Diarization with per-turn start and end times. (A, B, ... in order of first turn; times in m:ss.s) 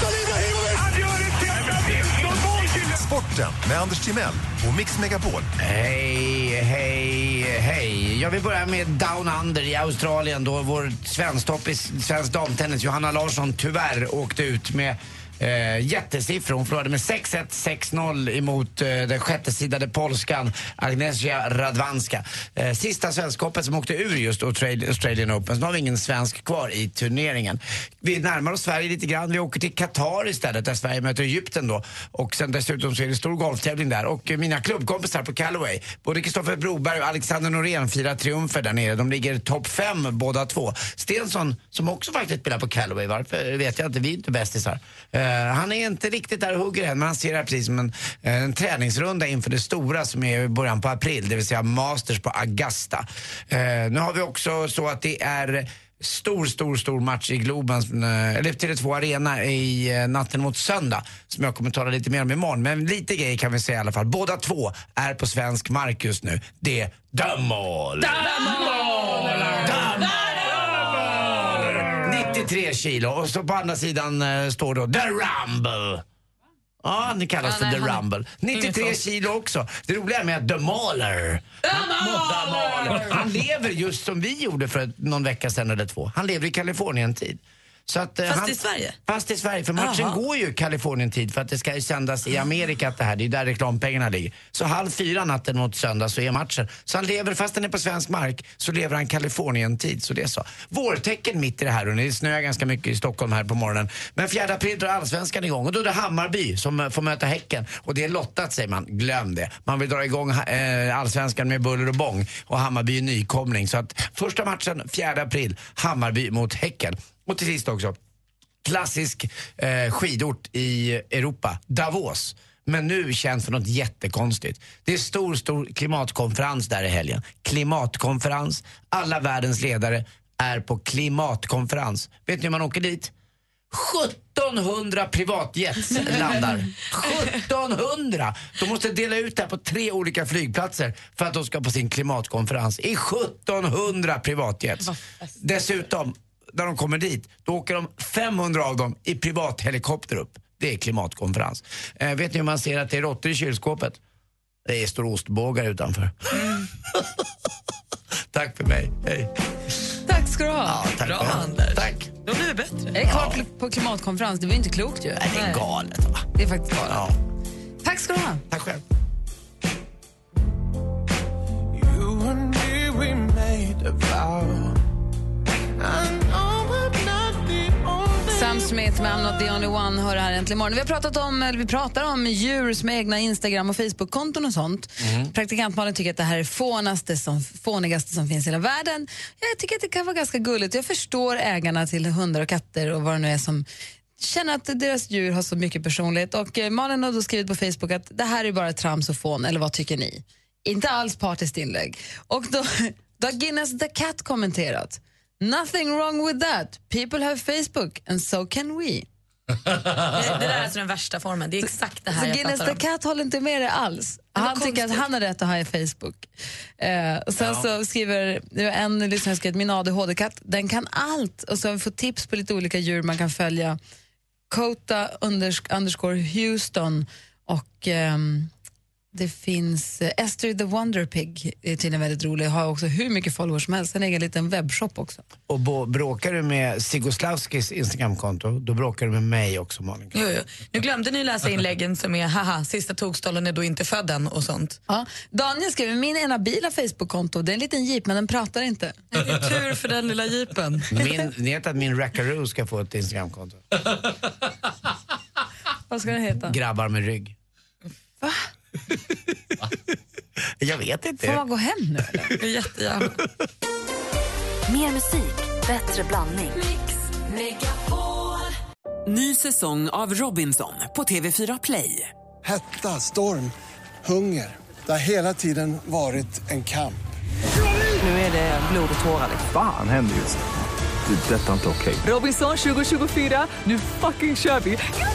0:02.7-0:05.5 A
0:05.6-1:08.3 B
1:08.2-1:09.6 C
1:08.3-1:10.0 D
1:09.2-1:16.0 B
1:16.8-1:58.0 B
1:17.4-1:18.0 D
1:18.5-1:19.0 D
1:21.7-1:23.0 D
1:28.3-1:29.0 D
1:29.8-1:30.2 D
1:58.6-2:13.1 B
2:13.7-2:34.0 B
2:24.8-2:25.3 D
2:34.6-2:37.2 B
2:36.3-2:36.6 D
2:38.3-2:39.3 B
2:40.0-2:40.8 C
2:40.6-2:42.1 B
2:41.0-2:43.0 D
2:42.9-2:45.3 C
2:43.0-2:43.4 B
2:45.2-2:46.2 B
2:45.3-2:45.6 D
2:46.3-2:47.1 C
2:46.9-2:47.2 B
2:47.8-2:48.4 C
2:48.5-2:48.8 B
2:51.7-2:54.8 E
2:55.8-2:58.7 E
2:58.3-3:13.6 C
3:05.0-3:05.3 B
3:14.2-3:29.1 C
3:30.0-3:32.8 D
3:31.6-3:43.8 C
3:34.3-3:35.0 D
3:37.4-3:37.6 B
3:44.5-3:48.5 C
3:49.1-3:55.2 C
3:55.5-4:00.2 B
4:00.1-4:04.8 D
4:04.9-4:09.0 C
4:09.1-4:11.0 D
4:10.9-4:13.7 B
4:15.9-4:16.6 C
4:16.4-4:17.4 B
4:18.2-4:18.5 C
4:20.6-4:21.4 B
4:21.2-4:22.4 C
4:22.4-4:23.2 D
4:24.7-4:28.5 F
4:29.1-4:32.1 G
4:32.4-4:37.0 H
4:38.0-4:39.5 G
4:39.5-4:40.4 I
4:41.0-4:42.1 I
4:42.0-4:44.8 G